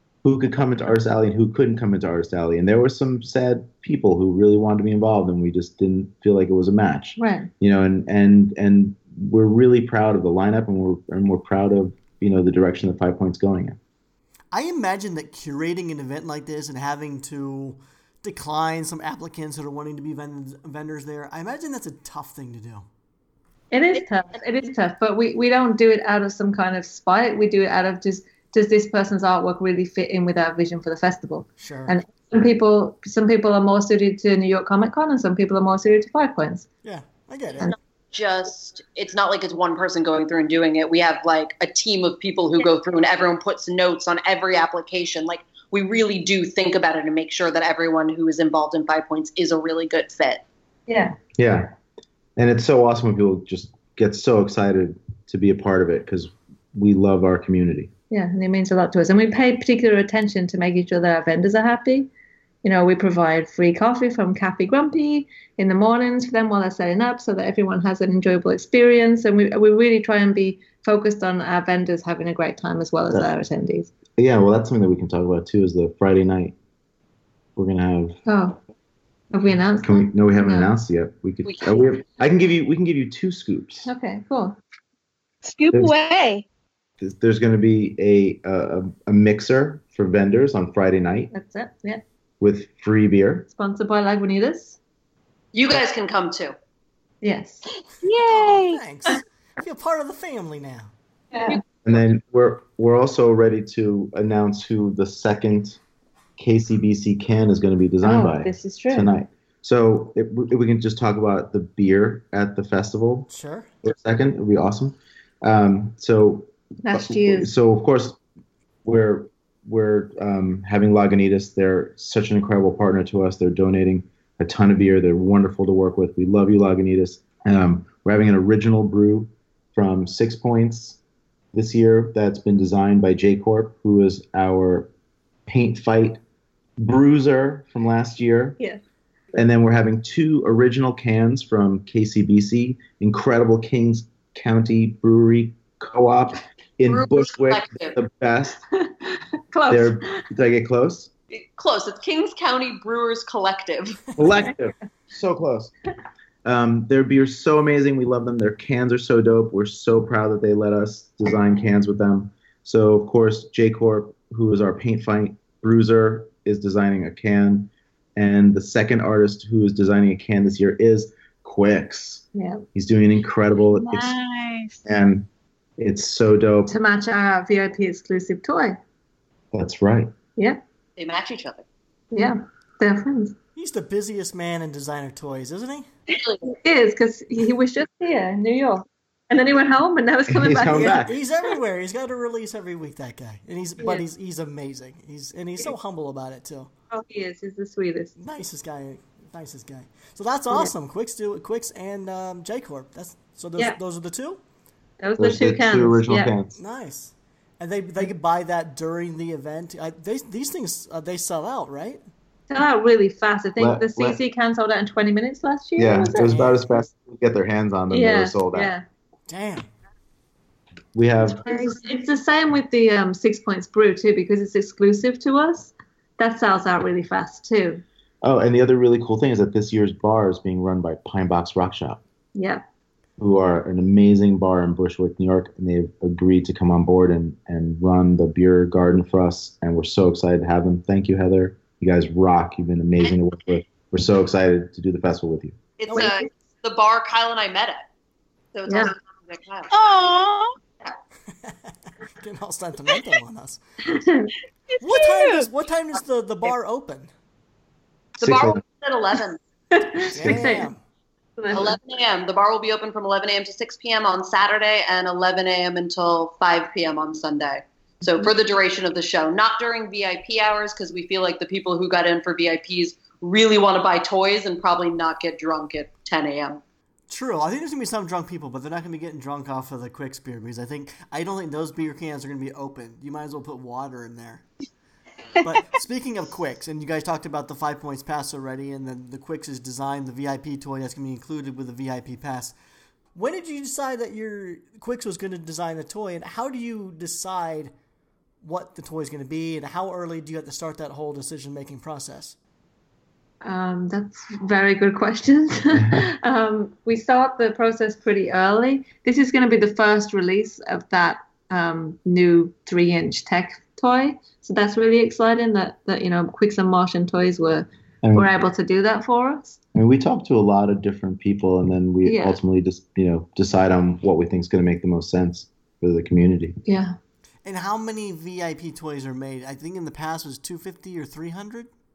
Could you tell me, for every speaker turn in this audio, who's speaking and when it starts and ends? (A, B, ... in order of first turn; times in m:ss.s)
0:00.2-0:13.8 A
0:07.2-0:07.5 B
0:14.5-0:22.8 C
0:23.7-0:36.7 B
0:31.6-0:32.0 C
0:36.8-0:37.7 C
0:38.1-0:50.4 D
0:50.9-0:51.2 B
0:51.4-0:51.7 A
0:52.4-0:57.9 A
0:58.1-1:02.1 B
1:02.6-1:13.9 B
1:14.2-1:16.5 A
1:17.6-1:18.2 A
1:18.2-1:18.6 B
1:19.3-1:20.7 B
1:19.8-1:23.9 A
1:21.4-1:21.8 D
1:23.8-1:24.6 B
1:25.4-1:26.4 E
1:27.0-1:31.3 A
1:31.3-1:32.0 B
1:32.4-1:33.5 A
1:33.5-1:34.8 B
1:35.5-1:36.5 D
1:37.2-1:37.6 B
1:38.0-1:38.8 E
1:38.1-1:40.9 C
1:41.3-1:41.6 B
1:41.8-1:45.8 A
1:46.4-1:53.3 A
1:48.0-1:49.1 B
1:53.3-1:53.7 C
1:53.8-1:58.2 A
1:56.8-1:57.5 B
1:58.8-2:11.0 A
2:11.5-2:14.9 A
2:15.5-2:16.2 A
2:16.8-2:18.6 A
2:19.3-2:28.6 A
2:26.9-2:28.0 D
2:28.8-2:30.2 B
2:29.7-2:31.1 A
2:31.3-2:34.1 D
2:34.2-2:35.7 A
2:36.4-2:54.1 A
2:52.3-2:52.6 B
2:53.7-2:54.8 E
2:54.8-2:55.3 A
2:55.8-2:56.7 A
2:56.7-2:58.8 B
2:59.5-3:00.1 A
3:01.0-3:01.6 D
3:02.1-3:03.4 B
3:03.5-3:05.9 C
3:06.1-3:06.5 D
3:06.5-3:11.1 B
3:10.3-3:11.1 A
3:10.7-3:16.7 C
3:16.9-3:18.2 B
3:18.2-3:24.4 C
3:25.0-3:26.3 B
3:25.2-3:26.5 A
3:26.6-3:32.0 C
3:32.5-3:36.3 B
3:33.6-3:34.2 A
3:35.8-3:38.7 A
3:36.1-3:36.6 C
3:37.9-3:38.8 B
3:39.3-3:39.7 C
3:40.9-3:41.4 A
3:41.3-3:41.8 E
3:41.4-3:47.8 B
3:48.2-3:52.0 A
3:52.3-3:52.6 B
3:53.2-4:05.6 A
4:05.8-4:07.8 D
4:05.9-4:06.3 B
4:08.5-4:09.7 D
4:08.7-4:08.9 B
4:09.7-4:10.5 E
4:11.4-4:13.6 C
4:13.9-4:14.3 B
4:14.7-4:15.5 E
4:14.8-4:17.1 C
4:18.2-4:19.4 D
4:18.2-4:18.6 A
4:19.7-4:20.7 B
4:20.1-4:20.8 C
4:20.2-4:20.5 A
4:21.4-4:21.8 B
4:21.5-4:36.6 D
4:37.1-4:44.4 C
4:45.4-4:52.5 C
4:53.1-4:57.7 C
4:58.4-5:02.3 C
5:03.4-5:19.6 B
5:05.8-5:06.0 A
5:18.0-5:18.3 A
5:19.7-5:26.6 A
5:22.0-5:22.4 B
5:26.6-5:26.9 B
5:27.4-5:31.7 C